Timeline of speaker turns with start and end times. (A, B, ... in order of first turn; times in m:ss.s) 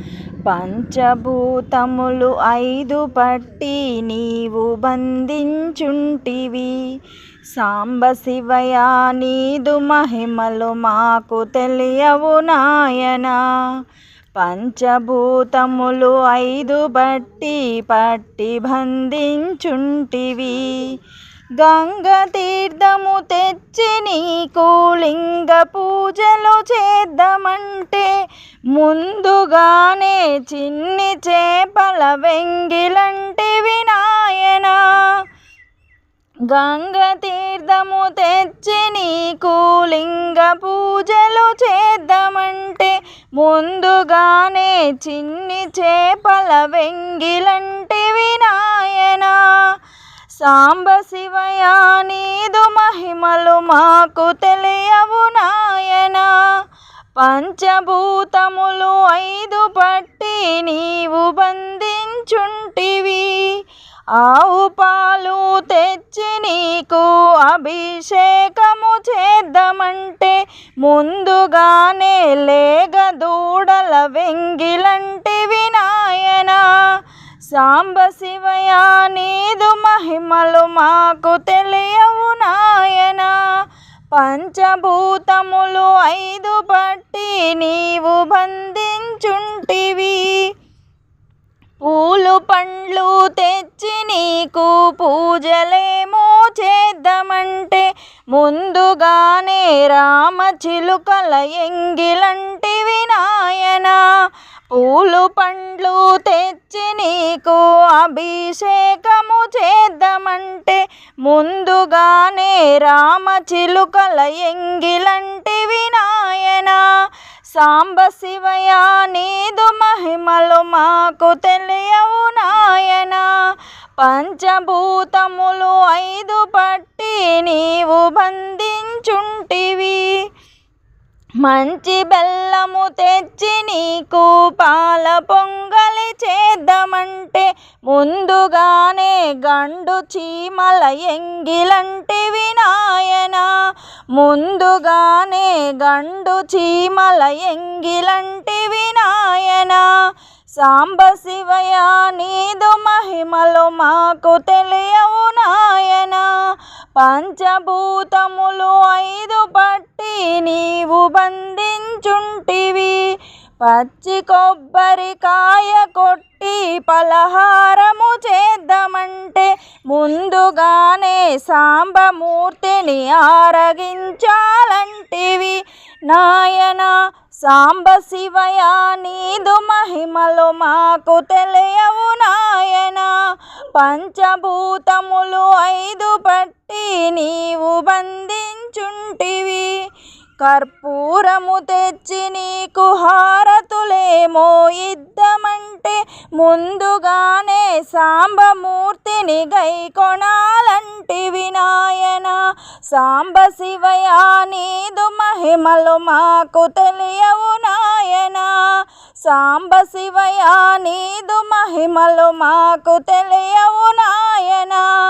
0:00.5-0:06.8 A
0:07.6-0:13.4 A
0:14.4-0:21.0 A
0:21.6-0:28.1 A
0:28.8-0:34.8 A
0:36.5-0:49.4 A
0:50.4-0:56.3 A
0:57.2-1:03.4 A
1:04.2-1:16.6 A
1:17.5-1:23.3 A
1:24.1-1:30.4 A
1:31.8-1:44.0 A
1:44.7-1:56.8 A
1:57.5-2:03.3 A
2:04.0-2:10.1 A
2:11.4-2:23.5 A
2:24.2-2:29.8 A
2:30.6-2:36.2 A
2:37.0-2:43.0 A
2:43.6-3:03.1 A
3:03.8-3:09.7 A
3:10.4-3:22.4 A
3:22.9-3:34.9 A